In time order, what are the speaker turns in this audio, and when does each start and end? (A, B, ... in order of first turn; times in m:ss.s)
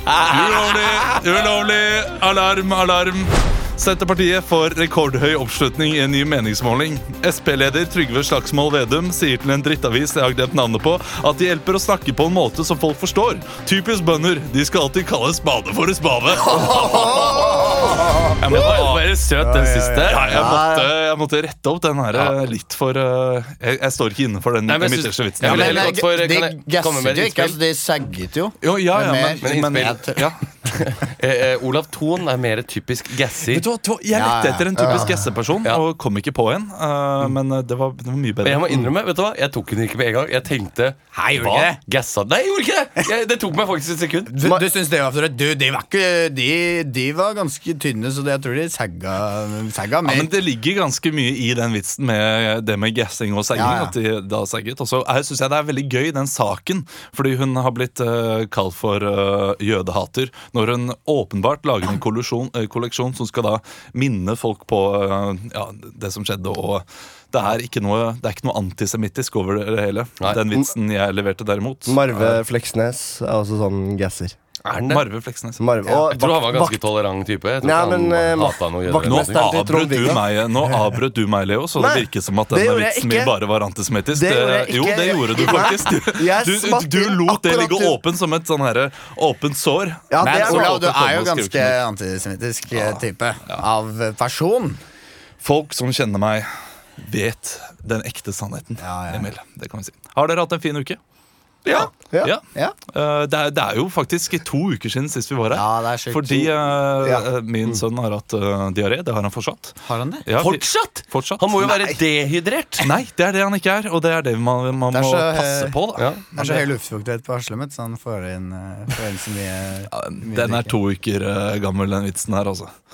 0:00.3-0:17.3 A
0:16.6-0:18.2 B
0:16.7-0:17.9 C
0:18.4-0:19.1 A
0:18.4-0:20.5 D
0:19.4-0:20.2 C
0:20.1-0:26.0 A
0:20.3-0:20.9 B
0:22.1-0:22.4 D
0:24.7-0:27.6 D
0:25.4-0:30.2 C
0:28.6-0:30.4 A
0:29.4-0:33.7 D
0:33.5-0:38.8 A
0:34.1-0:35.2 C
0:38.4-0:44.3 D
0:41.1-0:41.8 C
0:44.3-0:50.3 C
0:50.0-1:12.4 A
0:53.5-0:53.9 C
1:11.9-1:14.4 B
1:14.6-1:15.0 D
1:14.8-1:15.6 A
1:15.6-1:16.8 B
1:15.9-1:19.5 D
1:17.6-1:20.2 B
1:19.0-1:31.8 A
1:21.8-1:23.3 B
1:24.1-1:28.0 B
1:30.1-1:30.9 B
1:30.2-1:34.8 C
1:32.7-1:33.6 A
1:35.4-1:41.0 A
1:38.8-1:39.3 C
1:41.6-1:41.9 D
1:42.1-1:42.3 B
1:42.2-1:51.8 A
1:45.5-1:46.5 C
1:47.0-1:47.8 B
1:49.8-1:50.3 C
1:50.4-1:52.9 D
1:52.8-1:56.6 A
1:54.9-1:55.8 C
1:56.0-1:56.2 D
1:56.3-2:00.7 C
1:59.9-2:02.7 A